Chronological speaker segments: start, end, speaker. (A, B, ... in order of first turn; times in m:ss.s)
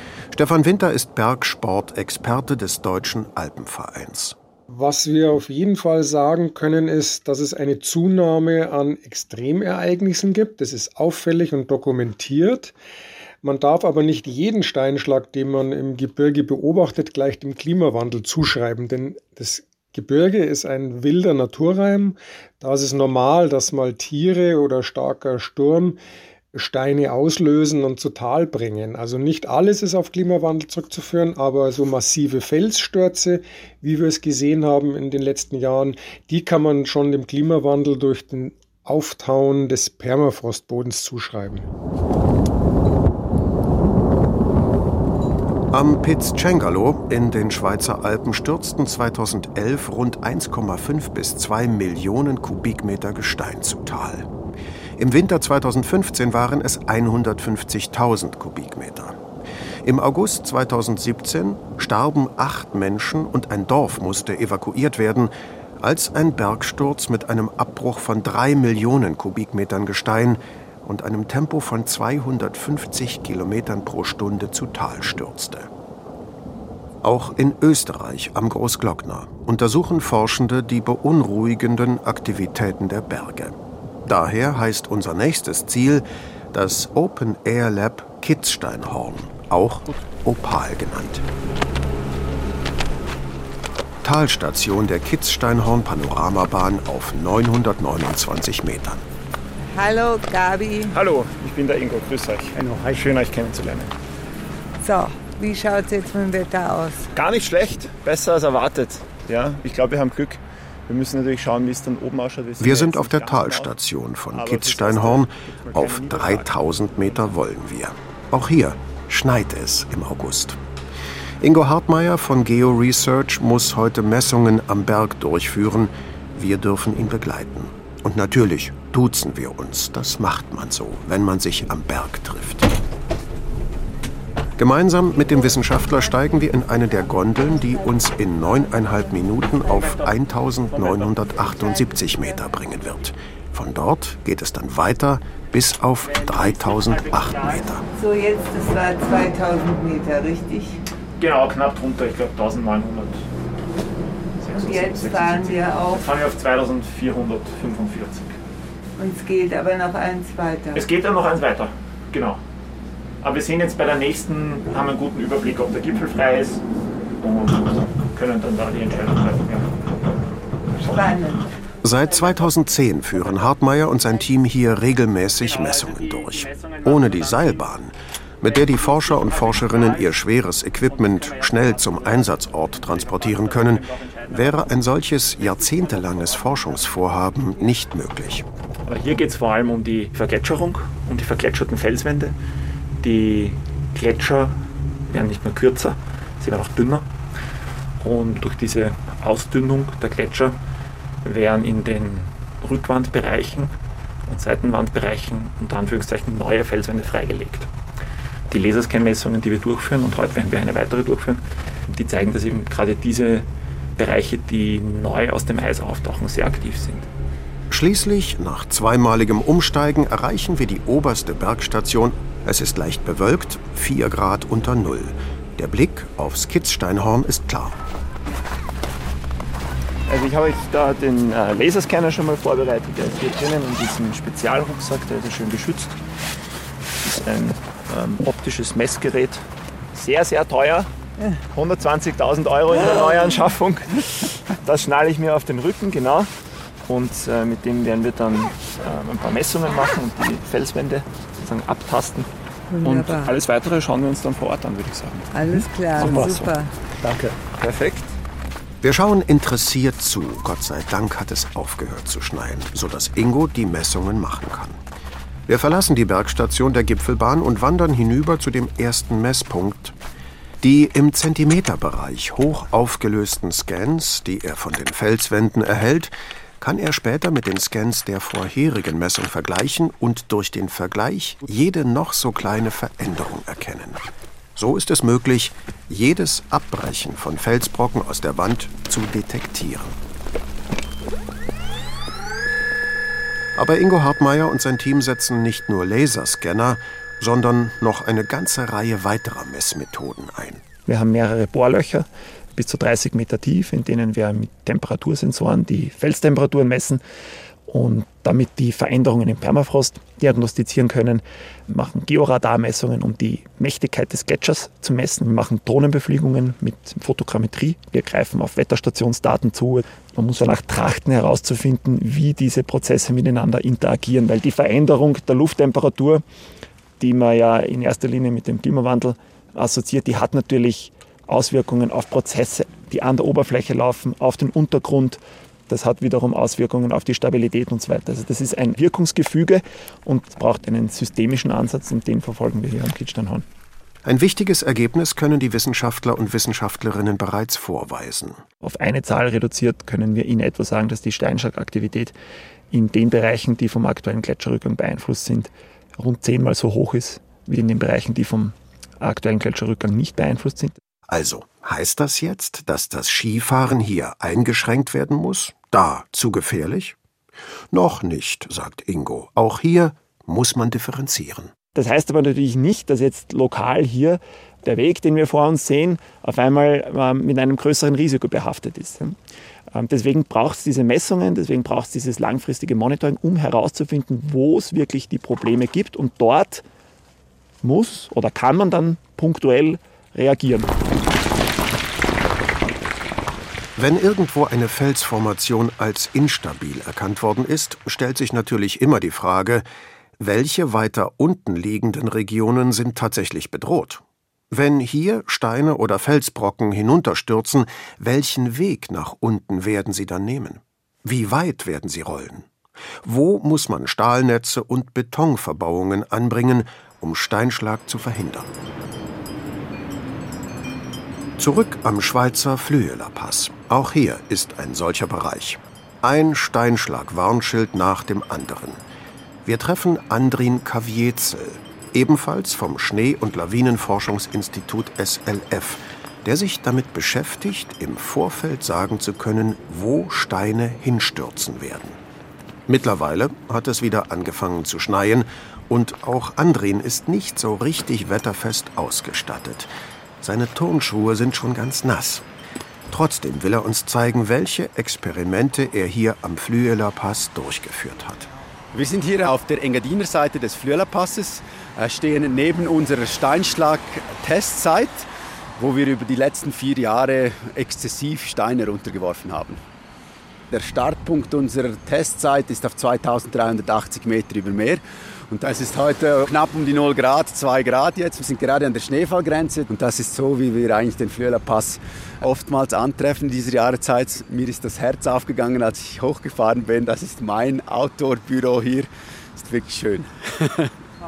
0:00.3-0:04.4 A
0:04.7-0:12.7 B
0:13.4-0:26.0 B
0:26.5-0:41.7 B
0:45.7-0:54.3 A
0:55.0-0:59.2 A
0:59.8-1:15.7 A
1:17.0-1:31.2 A
1:34.0-1:39.0 A
1:39.7-1:40.9 C
1:40.9-1:43.9 D
1:44.8-1:47.1 C
1:47.1-1:53.7 D
1:52.6-2:00.6 A
1:54.3-1:57.3 D
2:01.4-2:12.7 A
2:14.6-2:27.8 A
2:15.5-2:19.0 C
2:19.5-2:19.9 C
2:20.8-2:21.4 D
2:28.0-2:30.8 C
2:31.2-2:33.2 D
2:34.4-2:38.3 D
2:34.6-2:36.0 C
2:39.0-2:40.8 C
2:40.7-2:42.4 D
2:43.2-2:46.6 D
2:47.2-2:49.7 D
2:50.9-2:51.4 C
2:51.8-3:08.4 A
3:08.8-3:12.3 D
3:13.0-3:14.6 D
3:15.1-3:17.0 D
3:18.0-3:20.6 D
3:21.2-3:23.7 D
3:24.3-3:27.7 D
3:28.5-3:37.1 D
3:37.7-3:47.8 A
3:50.1-3:55.9 D
3:57.0-4:00.9 D
4:01.5-4:06.3 D
4:06.9-4:12.3 D
4:12.7-4:13.3 C
4:12.8-4:18.1 D
4:15.3-4:16.7 C
4:18.8-4:24.8 A
4:25.5-4:30.0 A
4:30.6-4:44.0 A
4:44.6-4:50.0 A
4:53.5-5:00.6 A
5:00.8-5:07.0 D
5:07.7-5:26.2 D
5:27.0-5:43.4 D
5:44.0-5:48.4 A
5:48.6-5:52.1 D
5:52.7-6:00.8 D
6:01.1-6:07.0 A
6:07.7-6:11.5 A
6:11.7-6:19.2 D
6:19.7-6:26.6 D
6:27.6-6:30.7 D
6:33.8-6:39.6 A
6:40.2-6:52.5 A
6:53.0-6:58.5 A
7:01.4-7:08.8 A
7:09.4-7:22.0 A
7:22.7-7:29.7 A
7:30.2-7:32.2 A
7:32.9-7:38.3 A
7:38.7-7:45.0 E
7:45.6-7:49.6 E
7:50.5-7:54.8 E
7:55.3-8:08.8 E
8:09.4-8:10.7 E